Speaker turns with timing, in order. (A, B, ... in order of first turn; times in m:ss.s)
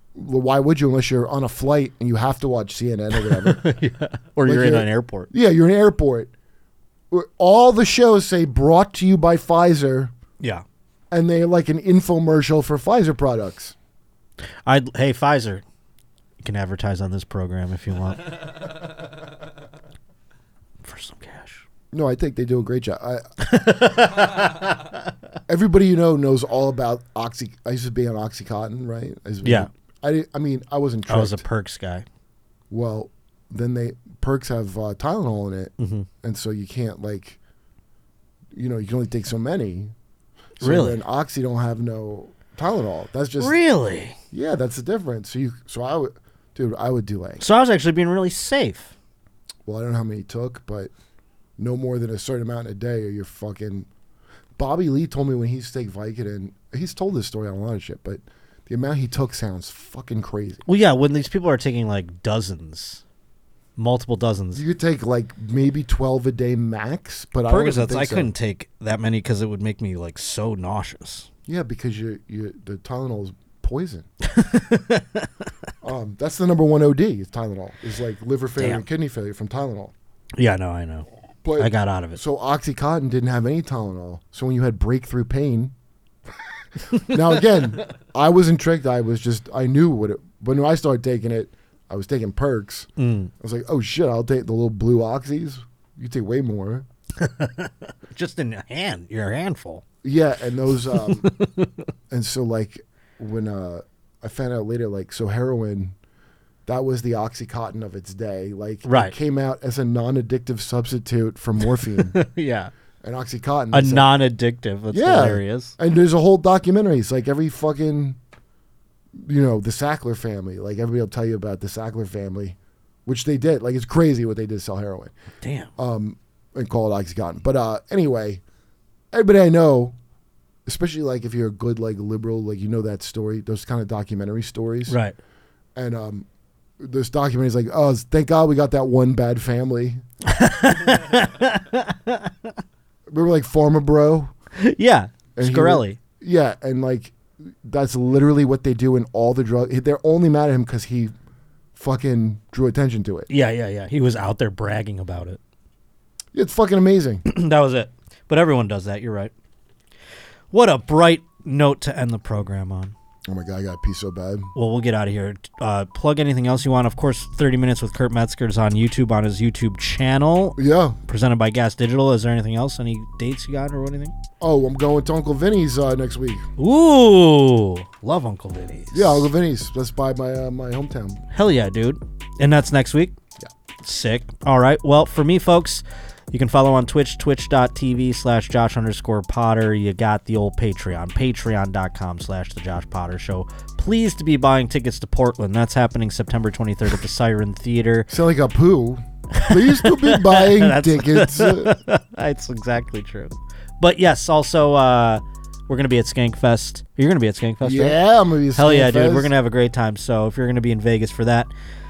0:00.2-0:03.6 A
0:03.2-0:05.3 B
0:04.4-0:06.3 A
0:07.1-0:10.1 A
0:11.1-0:13.8 A
0:14.7-0:15.6 B
0:16.4-0:18.3 B
0:20.8-0:21.6 B
0:21.9-0:23.3 A
0:23.4-0:24.9 B
0:25.5-0:31.4 A
0:29.4-0:29.7 B
0:31.1-0:32.1 B
0:32.7-0:37.4 A
0:35.8-0:36.1 B
0:38.5-0:39.9 A
0:40.6-0:43.6 A
0:40.6-0:41.0 B
0:43.4-0:44.2 B
0:44.3-0:47.4 A
0:47.4-0:48.9 B
0:49.7-0:50.9 A
0:51.6-0:53.9 A
0:54.6-1:00.6 A
1:00.7-1:03.0 B
1:03.8-1:04.6 B
1:04.5-1:08.3 A
1:07.5-1:11.3 B
1:11.5-1:14.1 A
1:14.2-1:15.3 B
1:15.8-1:19.9 A
1:18.6-1:18.8 B
1:20.4-1:21.1 B
1:21.4-1:25.7 A
1:21.6-1:22.2 B
1:27.0-1:36.9 A
1:33.0-1:33.3 B
1:37.2-1:39.8 B
1:40.0-1:41.3 A
1:41.0-1:41.7 B
1:42.1-1:46.0 A
1:46.7-1:52.2 A
1:48.8-1:49.1 B
1:52.1-1:52.7 B
1:53.0-1:54.1 A
1:53.7-1:55.7 B
1:54.9-1:58.2 A
1:59.2-2:05.1 A
2:05.4-2:05.7 B
2:05.8-2:08.4 A
2:09.1-2:10.0 A
2:10.7-2:15.0 A
2:14.9-2:15.2 B
2:15.8-2:16.3 A
2:16.8-2:20.0 A
2:20.3-2:22.3 B
2:23.1-2:24.3 A
2:24.6-2:26.0 B
2:25.4-2:31.1 A
2:31.8-2:33.3 A
2:33.3-2:35.4 B
2:36.3-2:37.2 A
2:37.2-2:39.3 B
2:40.5-2:42.9 B
2:43.3-2:44.5 A
2:44.6-2:54.2 B
2:50.6-2:51.0 A
2:54.4-2:56.4 A
2:56.6-2:59.3 B
2:58.9-3:01.2 A
3:01.3-3:03.2 B
3:03.8-3:18.1 B
3:18.1-3:21.8 A
3:19.4-3:28.0 B
3:27.6-3:29.3 A
3:28.6-3:31.5 B